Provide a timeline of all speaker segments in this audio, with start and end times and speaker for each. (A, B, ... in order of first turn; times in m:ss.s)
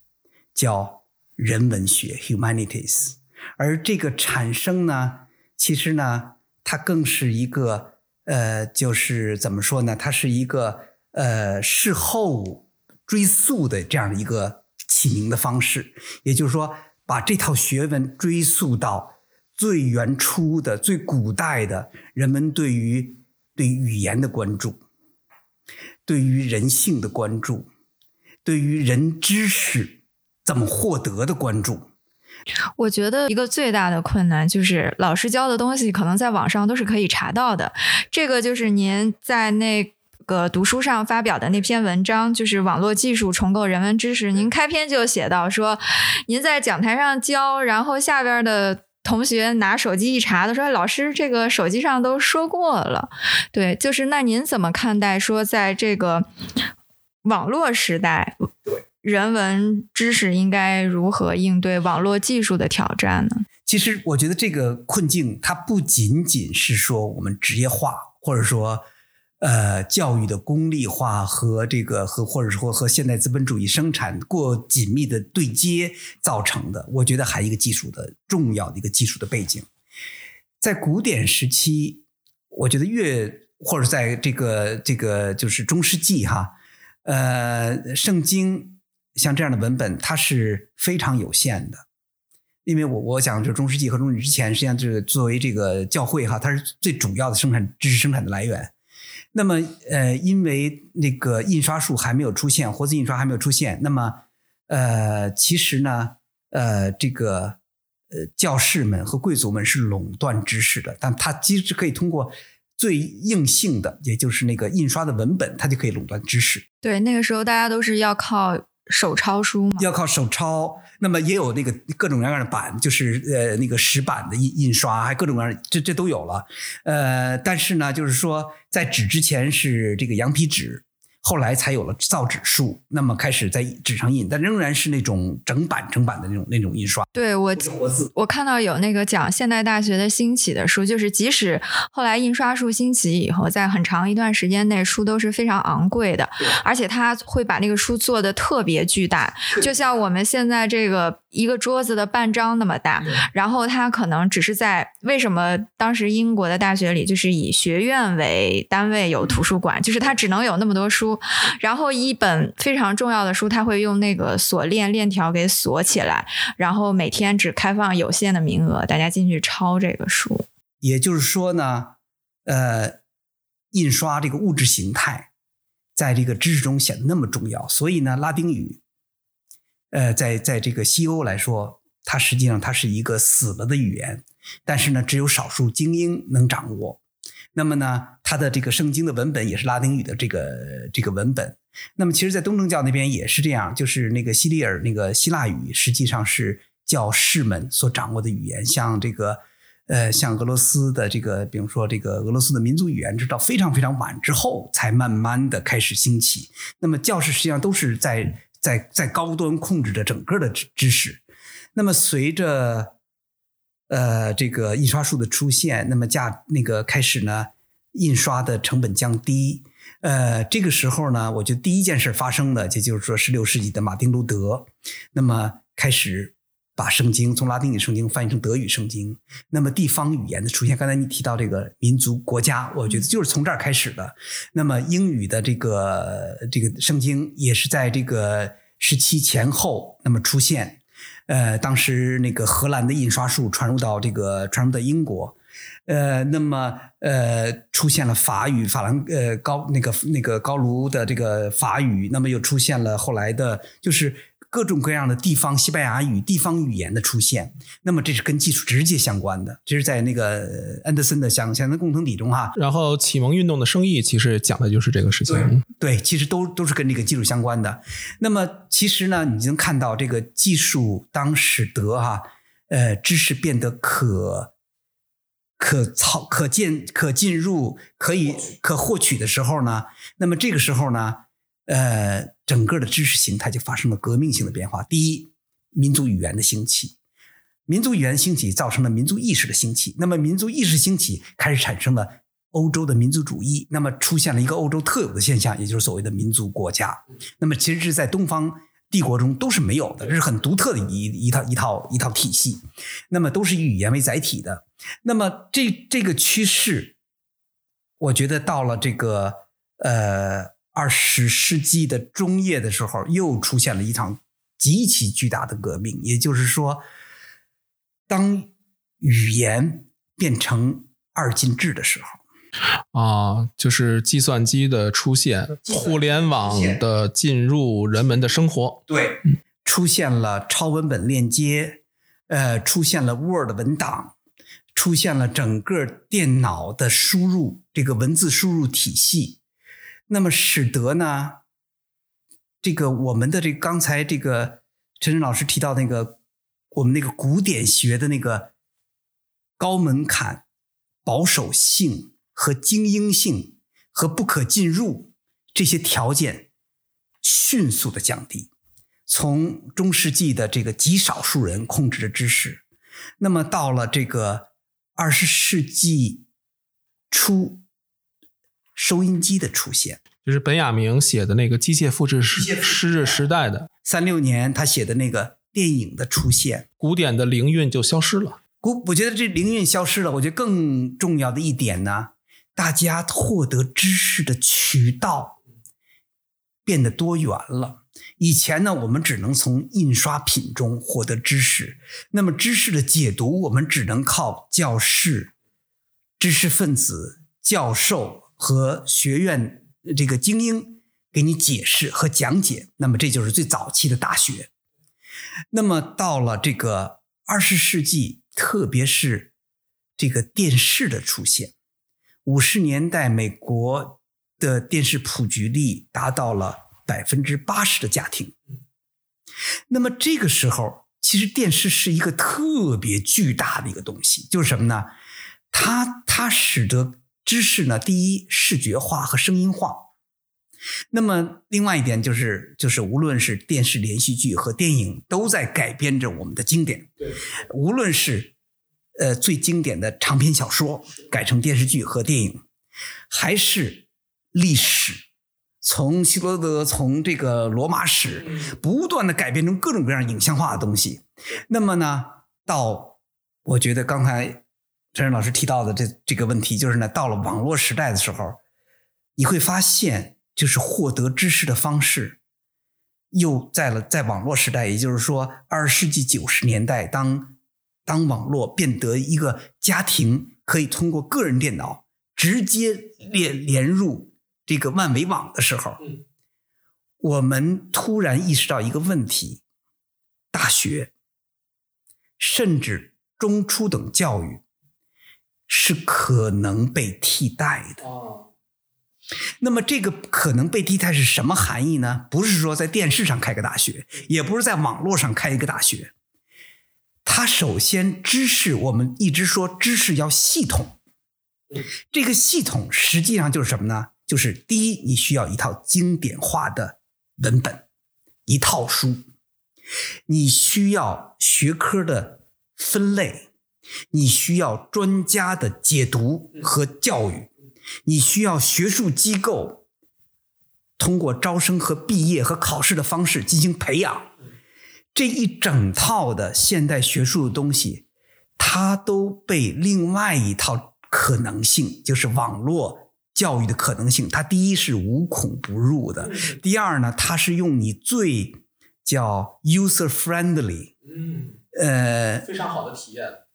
0:00.6-0:24.8 A
0:26.1-0:27.7 A
0:28.4-0:31.8 A
0:32.8-0:56.3 B
0:57.2-1:03.4 B
1:03.7-1:08.8 A
1:09.4-1:19.7 A
1:20.6-1:31.8 A
1:32.7-1:38.7 A
1:39.3-1:47.6 A
1:48.1-1:56.6 A
1:56.8-1:59.9 B
1:59.8-2:18.1 A
2:17.1-2:50.5 B
2:50.8-2:52.0 A
2:52.5-2:53.0 A
2:53.7-2:55.3 A
2:56.0-2:58.8 A
2:59.9-3:07.0 A
3:07.6-3:31.2 A
3:31.8-3:33.0 A
3:33.9-4:05.4 A
4:05.9-4:22.5 A
4:22.6-4:25.6 C
4:25.3-4:34.5 A
4:35.6-4:47.0 A
4:47.7-5:07.0 A
5:08.0-5:16.8 A
5:18.1-5:22.2 A
5:22.9-5:28.8 C
5:25.6-5:26.8 A
5:28.9-5:34.1 A
5:34.8-5:39.4 A
5:40.1-5:41.4 A
5:42.6-5:46.2 A
5:46.7-5:48.5 A
5:49.6-5:50.4 A
5:51.0-5:56.5 A
5:57.2-5:58.5 A
5:59.1-6:02.6 A
6:03.2-6:06.3 A
6:07.1-6:07.6 A
6:08.8-6:10.0 A
6:10.2-6:13.7 C
6:12.4-6:13.1 A
6:13.8-6:16.7 A
6:16.8-6:18.4 C
6:18.6-6:25.4 A
6:26.6-6:35.3 A
6:36.2-6:44.5 A
6:45.5-6:49.3 A
6:50.0-6:51.5 A
6:52.2-6:58.4 A
6:59.7-7:04.9 A
7:05.5-7:09.9 A
7:10.9-7:18.3 A
7:19.0-7:22.4 A
7:23.1-7:25.0 A
7:25.6-7:34.4 A
7:34.9-7:38.4 A
7:39.2-7:42.2 A
7:43.1-7:47.4 A
7:47.9-7:55.8 A
7:57.0-7:59.4 A
8:00.3-8:00.9 A
8:02.2-8:04.4 A
8:05.5-8:07.8 A
8:07.8-8:08.2 C
8:09.4-8:15.9 A
8:17.0-8:20.8 A
8:21.9-8:27.6 A
8:28.3-8:29.0 A
8:30.1-8:33.3 A
8:33.9-8:37.3 A
8:37.8-8:39.6 A
8:40.8-8:44.1 A
8:44.9-8:47.8 A
8:48.4-9:00.7 A
8:56.0-8:56.3 C
9:00.9-9:01.4 C
9:01.5-9:02.3 A
9:02.2-9:03.2 C